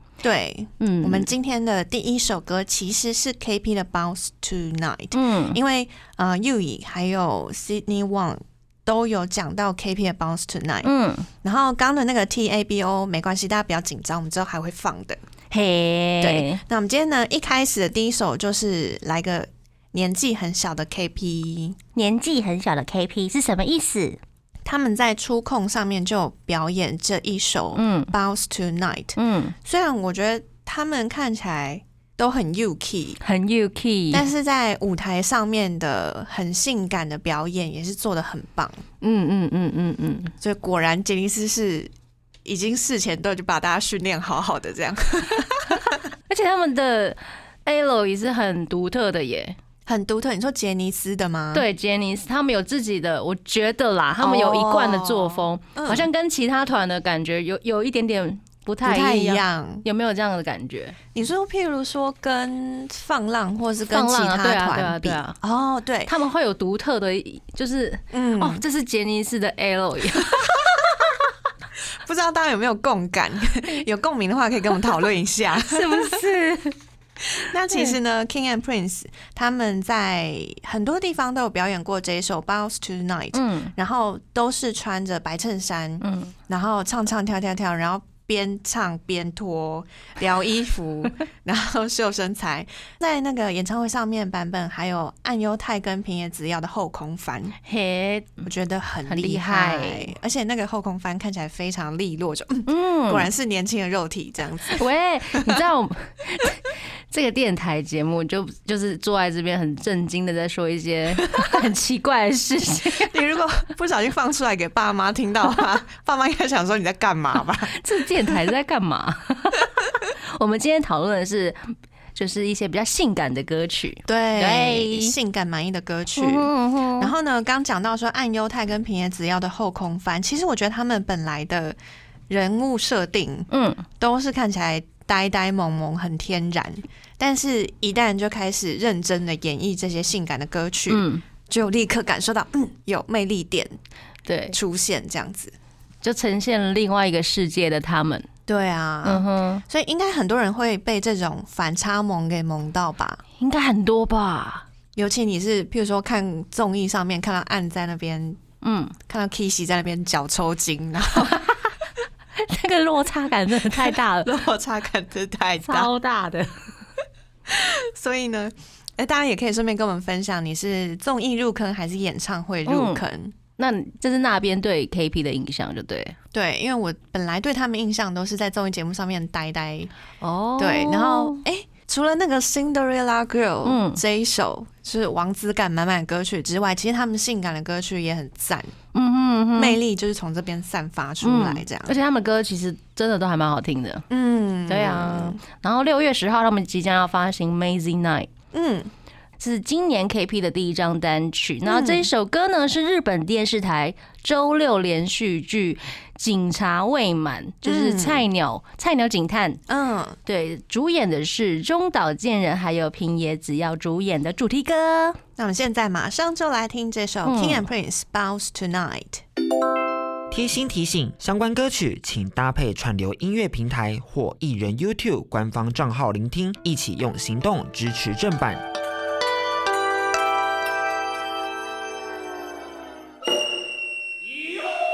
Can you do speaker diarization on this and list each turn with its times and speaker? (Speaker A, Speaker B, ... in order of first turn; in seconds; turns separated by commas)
Speaker A: 0.2-10.9, Speaker B: 0.8-1.3, Speaker B: 5.1-5.6, Speaker B: 10.8-11.3, Speaker A: 11.4-15.2, Speaker B: 15.5-16.6, Speaker A: 16.2-21.8, Speaker B: 21.9-24.2, Speaker A: 24.6-33.2, Speaker B: 27.8-28.1, Speaker B: 29.2-29.5, Speaker B: 33.2-34.3, Speaker A: 34.1-38.8, Speaker B: 39.0-40.3, Speaker A: 40.4-41.9, Speaker A: 42.4-46.1, Speaker B: 46.3-49.6, Speaker A: 49.9-51.6, Speaker B: 51.5-61.0, Speaker A: 54.2-56.1, Speaker A: 58.8-59.8, Speaker A: 61.1-66.1, Speaker B: 63.9-65.4, Speaker B: 66.1-70.5, Speaker A: 68.1-68.6, Speaker A: 70.2-71.0, Speaker A: 72.0-76.2, Speaker B: 75.6-76.8, Speaker A: 77.3-97.5, Speaker B: 83.3-83.7, Speaker B: 86.0-86.3, Speaker B: 97.6-98.4, Speaker A: 98.4-104.8, Speaker B: 99.1-100.1, Speaker B: 102.7-103.3, Speaker B: 104.7-113.1, Speaker A: 113.0-117.8, Speaker B: 117.7-125.1, Speaker A: 124.1-131.8, Speaker B: 126.2-127.1, Speaker A: 132.3-143.7, Speaker B: 133.5-133.8, Speaker B: 140.9-141.2, Speaker B: 144.2-144.6, Speaker A: 144.5-145.5, Speaker B: 146.0-148.2, Speaker A: 148.5-153.2, Speaker B: 149.0-149.6, Speaker B: 153.4-154.7, Speaker A: 154.9-158.4, Speaker B: 158.6-159.0, Speaker A: 159.1-161.4, Speaker B: 162.3-164.3, Speaker A: 163.7-165.9, Speaker B: 165.6-166.7, Speaker A: 167.5-173.3, Speaker B: 172.7-173.0, Speaker B: 173.6-176.2, Speaker A: 176.3-179.9, Speaker B: 180.2-181.4, Speaker A: 180.6-188.7, Speaker B: 183.6-184.0, Speaker B: 188.9-189.8, Speaker A: 189.5-192.0, Speaker B: 191.2-194.1, Speaker A: 194.1-195.4, Speaker B: 194.7-198.3, Speaker A: 198.5-198.9, Speaker B: 199.4-209.6, Speaker A: 201.7-202.1, Speaker A: 207.6-208.2, Speaker A: 209.7-210.2, Speaker B: 210.2-215.2, Speaker A: 215.4-219.2, Speaker B: 217.2-217.7, Speaker C: 220.3-228.6